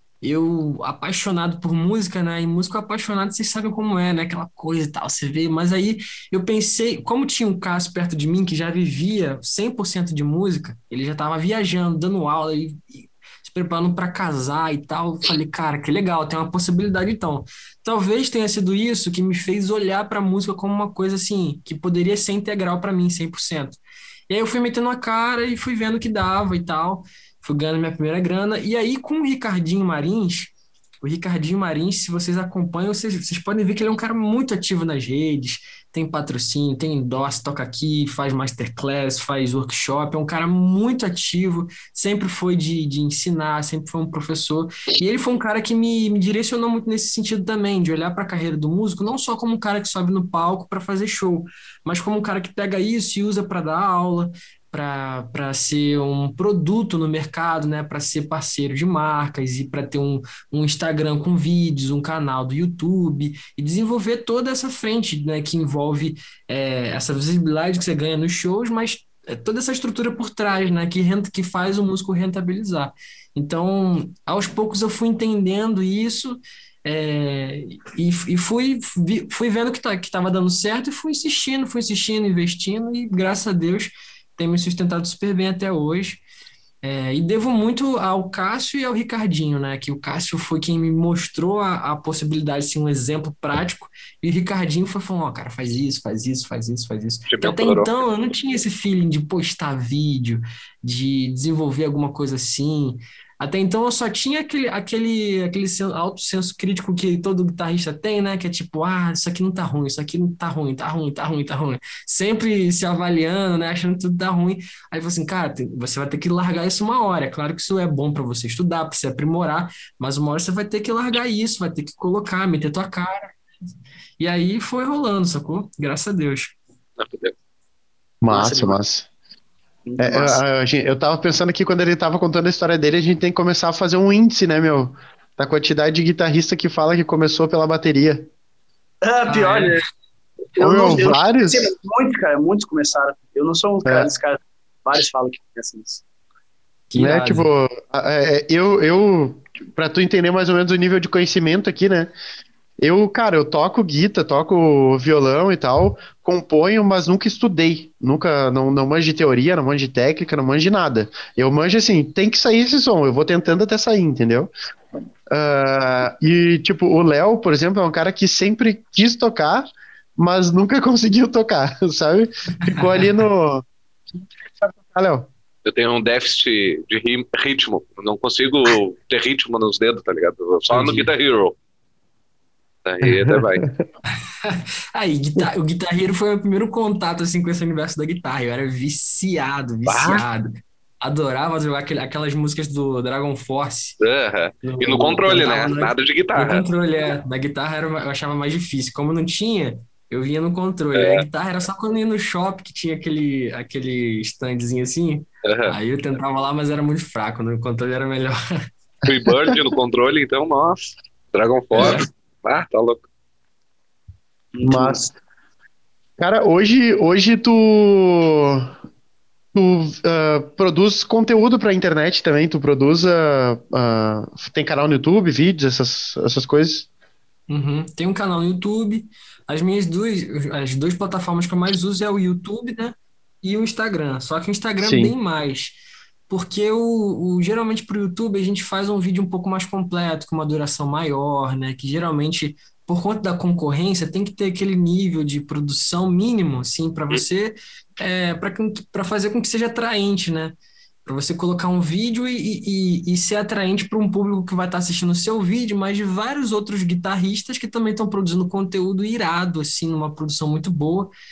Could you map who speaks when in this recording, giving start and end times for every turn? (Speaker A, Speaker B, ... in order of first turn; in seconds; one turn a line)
Speaker A: 0.2-23.8
Speaker A: 24.3-86.2
Speaker A: 86.8-123.3
Speaker B: 97.3-97.9
Speaker A: 124.2-126.6
Speaker B: 127.0-127.3
Speaker C: 128.2-129.1
Speaker D: 128.3-128.8
Speaker D: 129.8-130.4
Speaker C: 130.0-138.3
Speaker D: 139.0-139.8
Speaker A: 139.3-139.8
Speaker D: 140.6-146.0
Speaker C: 140.6-141.7
Speaker C: 143.8-144.1
Speaker A: 146.9-147.5
Speaker C: 146.9-152.1
Speaker C: 152.8-164.5
Speaker C: 165.3-169.7
Speaker C: 170.2-175.3
Speaker B: 175.6-181.5
Speaker A: 180.7-181.1
Speaker B: 182.8-183.7
Speaker C: 183.0-183.7
Speaker A: 184.4-194.0
Speaker B: 189.8-190.2
Speaker B: 194.0-196.7
Speaker A: 194.6-208.4
Speaker B: 200.9-201.2
Speaker B: 205.4-205.7
Speaker B: 209.1-213.0
Speaker D: 214.5-215.1
Speaker C: 214.6-215.1
Speaker C: 216.2-218.7
Speaker C: 219.5-226.9
Speaker A: 227.5-261.1
Speaker C: 234.8-235.1